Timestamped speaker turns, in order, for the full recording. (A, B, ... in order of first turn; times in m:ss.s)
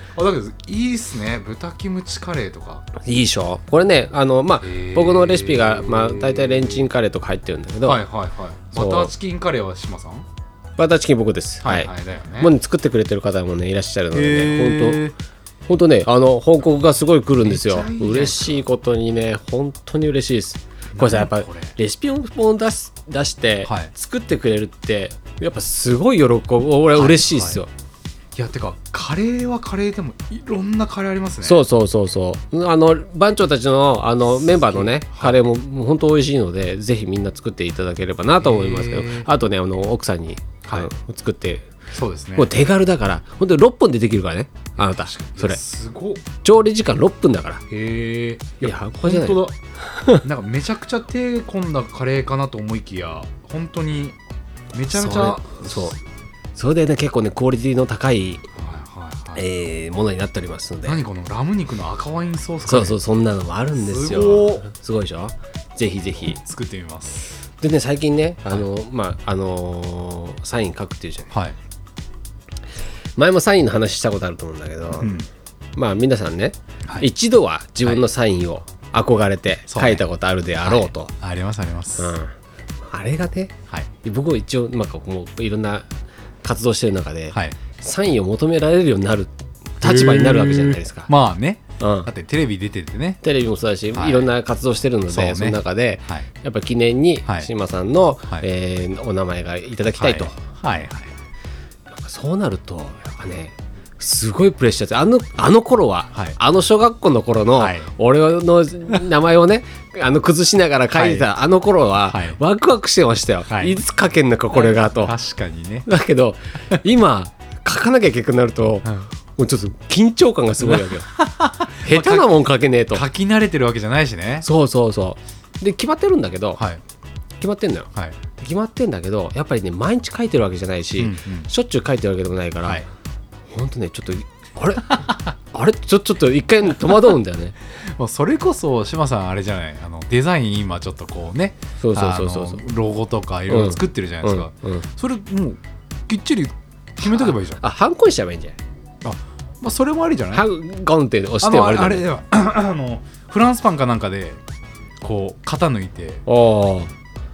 0:00.1-0:02.9 A
0:03.0-0:08.0 B
0:04.6-0:06.6 A
0:07.8-0:10.3 A
0:08.7-0:09.1 B
0:10.8-0:15.0 B
0:11.6-0:12.5 A
0:14.1-0:15.2 A
0:15.7-0:27.7 B
0:17.4-0:18.6 A
0:21.0-0:21.7 A
0:23.7-0:23.9 A
0:27.0-0:27.6 A
0:28.4-0:31.6 A
0:31.4-0:41.7 B
0:34.5-0:35.4 A
0:38.4-0:39.3 A
0:41.9-0:42.5 A
0:42.4-0:45.6 B
0:44.8-0:46.2 A
0:46.4-0:47.6 B
0:47.7-0:49.6 A
0:48.6-0:50.2 B
0:50.2-0:54.2 A
0:54.7-0:56.0 A
0:54.9-0:56.0 B
0:56.6-0:58.4 B
0:58.6-0:59.4 A
0:59.4-1:01.0 B
1:00.8-1:03.0 A
1:02.7-1:06.4 B
1:03.8-1:04.7 A
1:06.3-1:07.4 A
1:07.6-1:11.3 B
1:11.3-1:11.6 A
1:13.2-1:15.2 B
1:15.0-1:15.3 A
1:15.8-1:21.1 B
1:19.7-1:20.0 A
1:20.6-1:22.1 A
1:22.0-1:22.3 B
1:22.9-1:25.9 B
1:26.4-1:31.1 B
1:29.8-1:33.2 A
1:31.8-1:32.1 B
1:33.2-1:40.4 B
1:33.9-1:34.3 A
1:35.1-1:36.3 A
1:40.0-1:41.1 A
1:41.9-1:55.2 B
1:47.6-1:47.9 A
1:50.9-1:51.3 A
1:52.1-1:52.4 A
1:53.5-1:53.8 A
1:54.5-1:55.9 A
1:55.9-2:01.1 B
2:00.6-2:02.3 A
2:01.8-2:03.0 B
2:02.9-2:04.5 A
2:04.4-2:06.6 B
2:07.4-2:12.9 B
2:11.0-2:11.5 A
2:13.5-2:17.6 B
2:17.8-2:27.6 A
2:21.8-2:22.6 B
2:23.5-2:24.9 B
2:27.0-2:28.6 B
2:29.0-2:30.4 A
2:30.3-2:32.0 B
2:31.4-2:34.4 A
2:35.0-2:36.2 A
2:36.3-2:36.9 B